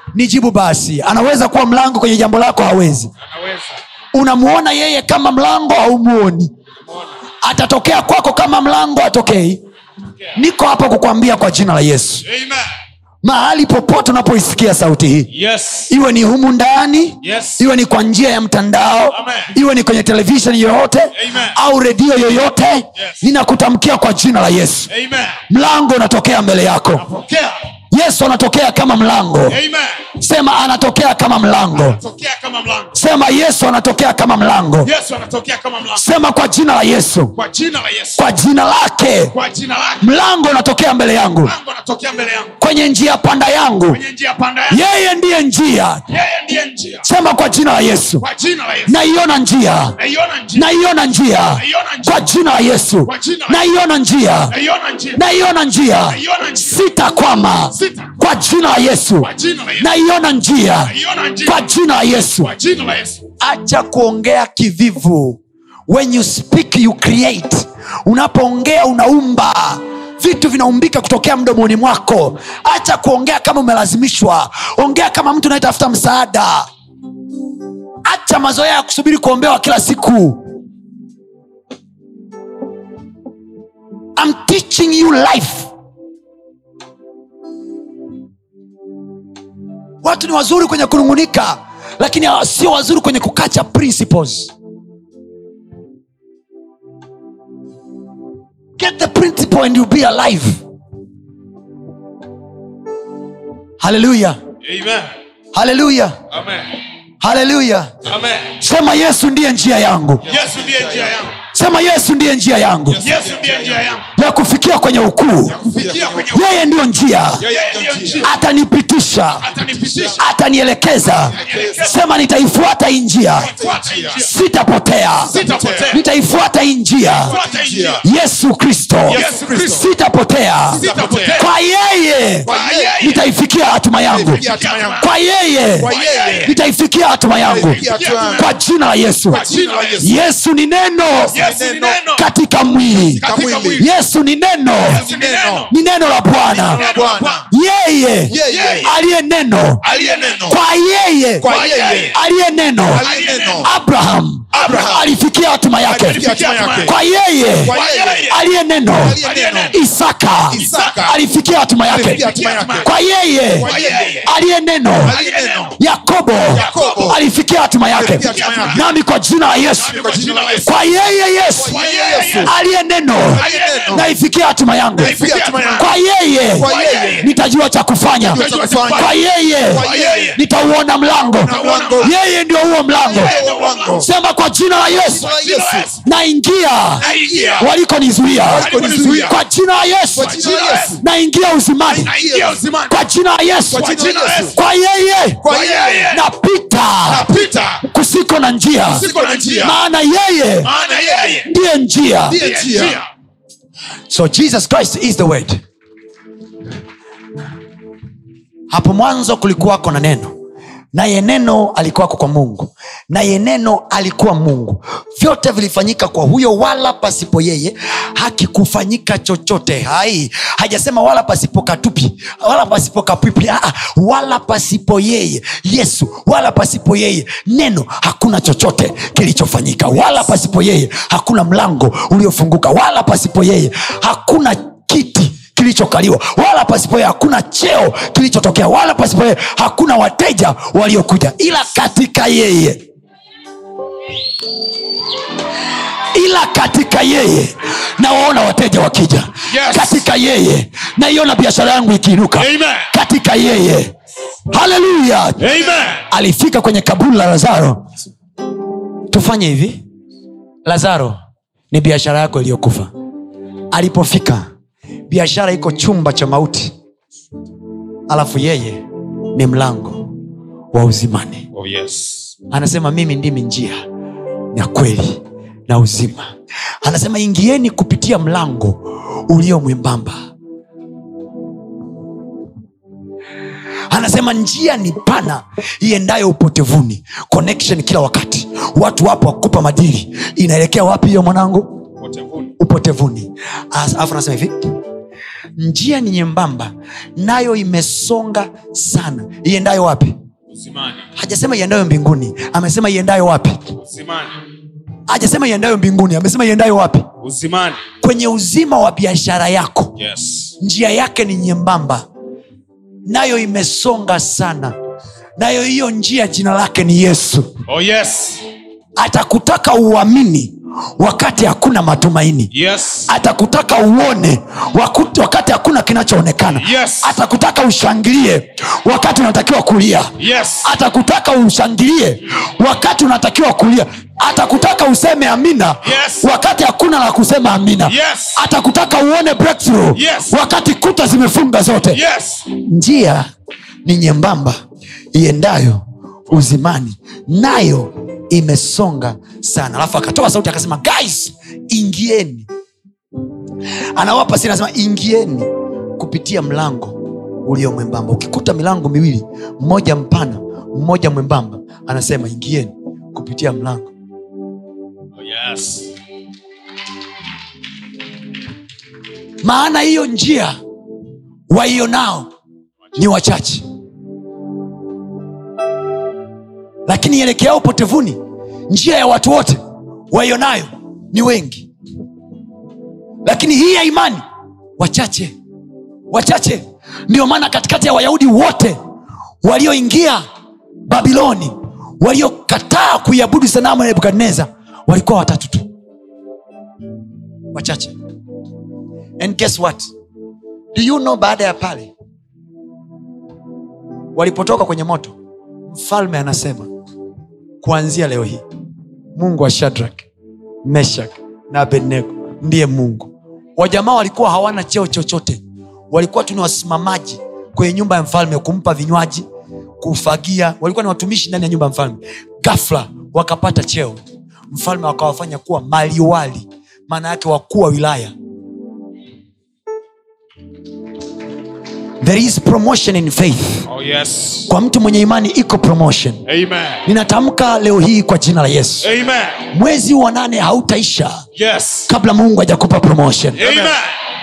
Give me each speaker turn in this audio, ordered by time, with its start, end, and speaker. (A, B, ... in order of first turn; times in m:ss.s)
0:00.1-0:03.1 A
0:03.3-0:03.8 B
0:04.1-0:06.5 A
0:06.9-0:07.2 B
0:07.4-0:09.6 A
0:10.4-0:12.2 A
0:12.2-0:12.7 B
0:13.2-0:15.3 A
0:15.3-0:15.9 B
0:15.9-0:24.9 A
0:17.2-0:17.6 B
0:19.1-0:19.5 B
0:21.2-0:21.6 B
0:24.9-0:25.4 B
0:25.5-0:27.1 A
0:27.0-0:27.6 B
0:27.9-0:29.6 A
0:29.5-0:30.1 B
0:30.2-0:32.0 A
0:31.8-0:32.9 B
0:32.9-0:34.9 A
0:34.8-0:36.0 B
0:35.9-0:37.4 A
0:37.4-0:38.2 B
0:38.2-0:39.3 A
0:39.3-0:40.1 B
0:40.0-0:41.6 A
0:41.5-0:42.5 B
0:42.6-0:44.0 A
0:43.9-0:44.8 B
0:44.7-0:46.0 A
0:46.1-0:47.0 B
0:47.0-0:48.2 A
0:48.2-0:48.9 B
0:48.9-0:50.0 A
0:50.0-0:50.7 B
0:50.5-0:54.6 A
0:51.6-0:52.2 B
0:53.1-0:53.6 B
0:54.5-0:55.2 B
0:55.1-1:02.5 A
0:56.1-0:56.8 B
0:57.8-0:58.1 B
0:59.2-0:59.9 B
1:00.9-1:01.6 B
1:02.4-1:03.2 B
1:03.4-1:16.7 A
1:18.0-1:20.4 A
1:24.2-1:25.7 A
1:30.0-1:34.5 A
1:38.8-1:40.6 A
1:43.8-1:44.4 A
1:44.6-1:45.1 B
1:45.5-1:46.2 A
1:46.3-1:46.8 B
1:47.2-1:47.9 A
1:48.0-1:48.6 B
1:48.6-1:50.3 A
1:50.3-1:51.3 B
1:50.3-1:51.3 C
1:51.5-1:53.0 A
1:52.9-1:54.0 C
1:53.0-1:54.1 B
1:54.2-1:55.6 A
1:55.5-1:56.4 C
1:55.8-1:56.4 B
1:56.3-1:57.5 A
1:57.4-1:58.3 C
1:57.4-1:58.3 B
1:58.2-1:59.5 A
1:59.4-2:00.2 B
1:59.5-2:00.2 C
2:00.2-2:03.6 A
2:01.1-2:01.9 C
2:01.4-2:02.0 B
2:03.4-2:04.3 B
2:03.4-2:04.3 C
2:04.1-2:05.3 A
2:05.2-2:06.0 C
2:05.3-2:06.0 B
2:05.9-2:07.4 A
2:07.2-2:08.0 C
2:07.3-2:08.0 B
2:08.0-2:10.8 A
2:09.1-2:09.9 C
2:09.1-2:09.7 B
2:10.7-2:11.5 C
2:10.8-2:11.5 B
2:11.4-2:14.4 A
2:12.4-2:13.0 C
2:12.5-2:13.2 B
2:14.1-2:15.1 C
2:14.5-2:15.1 B
2:15.0-2:15.9 A
2:15.8-2:16.6 C
2:15.9-2:16.5 B
2:16.4-2:17.8 A
2:17.5-2:18.5 C
2:17.7-2:18.5 B
2:18.3-2:19.5 A
2:19.3-2:20.1 C
2:19.4-2:20.1 B
2:20.0-2:21.4 A
2:21.3-2:22.3 B
2:21.3-2:22.0 C
2:22.1-2:25.0 A
2:23.2-2:23.8 B
2:23.2-2:23.9 C
2:24.9-2:25.7 C
2:24.9-2:25.7 B
2:25.7-2:26.9 A
2:26.5-2:27.4 B
2:26.6-2:27.5 C
2:27.5-2:29.8 A
2:28.3-2:28.9 C
2:28.4-2:28.9 B
2:29.8-2:30.4 B
2:29.8-2:30.6 C
2:30.5-2:31.5 A
2:31.4-2:32.2 C
2:31.5-2:32.2 B
2:32.1-2:33.0 A
2:32.9-2:33.7 C
2:33.0-2:33.6 B
2:33.6-2:36.3 A
2:34.5-2:34.9 B
2:34.6-2:35.1 C
2:35.9-2:37.0 C
2:36.1-2:36.9 B
2:36.8-2:37.8 A
2:37.6-2:38.4 C
2:37.7-2:38.4 B
2:38.3-2:45.2 A
2:39.0-2:39.8 C
2:39.2-2:39.8 B
2:40.5-2:41.2 C
2:40.6-2:41.0 B
2:41.9-2:42.9 C
2:42.2-2:42.9 B
2:43.5-2:44.3 C
2:43.6-2:44.3 B
2:45.0-2:45.8 C
2:45.1-2:45.8 B
2:45.8-2:51.8 A
2:46.5-2:47.2 C
2:46.5-2:47.1 B
2:47.9-2:48.8 C
2:48.2-2:48.9 B
2:49.8-2:50.7 B
2:49.8-2:50.7 C
2:51.6-2:52.5 C
2:51.7-2:52.5 B
2:52.4-2:55.2 A
2:53.3-2:54.1 C
2:53.3-2:54.0 B
2:55.0-2:55.9 B
2:55.0-2:55.9 C
2:55.7-3:03.4 A
2:56.5-2:57.3 C
2:56.6-2:57.3 B
2:58.3-3:00.4 C
2:58.3-2:59.2 B
2:59.8-3:00.4 B
3:01.3-3:02.2 C
3:01.5-3:02.2 B
3:03.0-3:04.1 C
3:03.1-3:04.1 B
3:04.0-3:05.3 A
3:05.0-3:06.0 C
3:05.2-3:06.0 B
3:06.0-3:07.1 A
3:07.0-3:07.7 C
3:07.0-3:07.7 B
3:07.6-3:10.4 A
3:08.5-3:09.3 B
3:08.5-3:09.4 C
3:10.1-3:11.0 C
3:10.2-3:11.0 B
3:11.0-3:12.2 A
3:11.9-3:12.7 C
3:12.0-3:13.0 B
3:12.9-3:14.0 A
3:13.7-3:14.6 C
3:13.8-3:14.6 B
3:14.5-3:15.4 A
3:15.4-3:16.2 C
3:15.5-3:16.2 B
3:16.1-3:17.3 A
3:17.1-3:17.8 C
3:17.8-3:20.7 A
3:18.9-3:19.8 C
3:19.0-3:19.7 B
3:20.6-3:21.5 B
3:20.7-3:21.4 C
3:21.4-3:22.4 A
3:22.3-3:23.0 C
3:22.4-3:23.1 B
3:24.1-3:25.6 A
3:28.7-3:30.3 A
3:30.9-4:02.8 A
4:06.1-4:13.9 A
4:09.5-4:10.1 B
4:12.4-4:12.9 B
4:14.5-4:17.8 A
4:15.4-4:16.0 B
4:19.1-4:19.8 A
4:20.7-4:21.2 A
4:21.7-4:22.9 A
4:23.7-4:24.5 A
4:25.1-4:26.7 A
4:28.1-4:28.8 A
4:29.4-4:30.1 A
4:30.7-4:31.5 A
4:31.5-4:32.3 B
4:32.5-4:33.8 A
4:34.5-4:36.3 A
4:36.8-4:40.2 A
4:43.9-4:51.8 A
4:52.0-4:52.5 B
4:52.6-4:54.6 A
4:55.6-5:00.2 A
5:00.5-5:01.1 B
5:01.2-5:03.6 A
5:03.8-5:04.4 B
5:05.1-5:07.1 A
5:07.2-5:07.8 B
5:08.0-5:10.0 A
5:10.0-5:10.5 B
5:10.6-5:12.0 A
5:13.0-5:14.8 A
5:15.4-5:17.5 A
5:17.7-5:18.4 B
5:19.0-5:22.5 A
5:22.5-5:23.1 B
5:23.1-5:42.0 A
5:26.6-5:27.2 B
5:30.2-5:30.7 B
5:35.8-5:36.3 B
5:37.9-5:38.4 B
5:39.9-5:40.4 B
5:41.9-5:42.5 B
5:42.5-5:43.3 A
5:43.8-5:44.6 A
5:45.1-5:52.5 A
5:54.0-6:03.9 A
6:05.2-6:05.9 B
6:09.4-6:10.6 A
6:11.5-6:12.3 A
6:13.0-6:13.6 A
6:16.9-6:19.6 A
6:20.1-6:21.7 A
6:23.2-6:24.2 A
6:24.8-6:25.3 A
6:26.1-6:28.8 A
6:29.4-6:30.2 A
6:30.9-6:35.7 A
6:37.5-6:37.9 A
6:39.2-6:39.9 A
6:40.7-6:41.9 A
6:44.2-6:45.2 A
6:45.7-6:46.7 A
6:47.6-6:48.4 A
6:49.2-6:50.1 A
6:50.6-6:59.2 A
6:59.8-7:04.0 A
7:04.5-7:08.1 A
7:12.0-7:13.7 A
7:13.7-7:14.5 B
7:14.5-7:16.2 A
7:16.3-7:16.8 B
7:16.8-7:18.9 A
7:18.8-7:19.5 B
7:19.5-7:21.2 A
7:21.4-7:21.9 B
7:21.9-7:23.4 A
7:23.4-7:24.0 B
7:23.4-7:23.8 C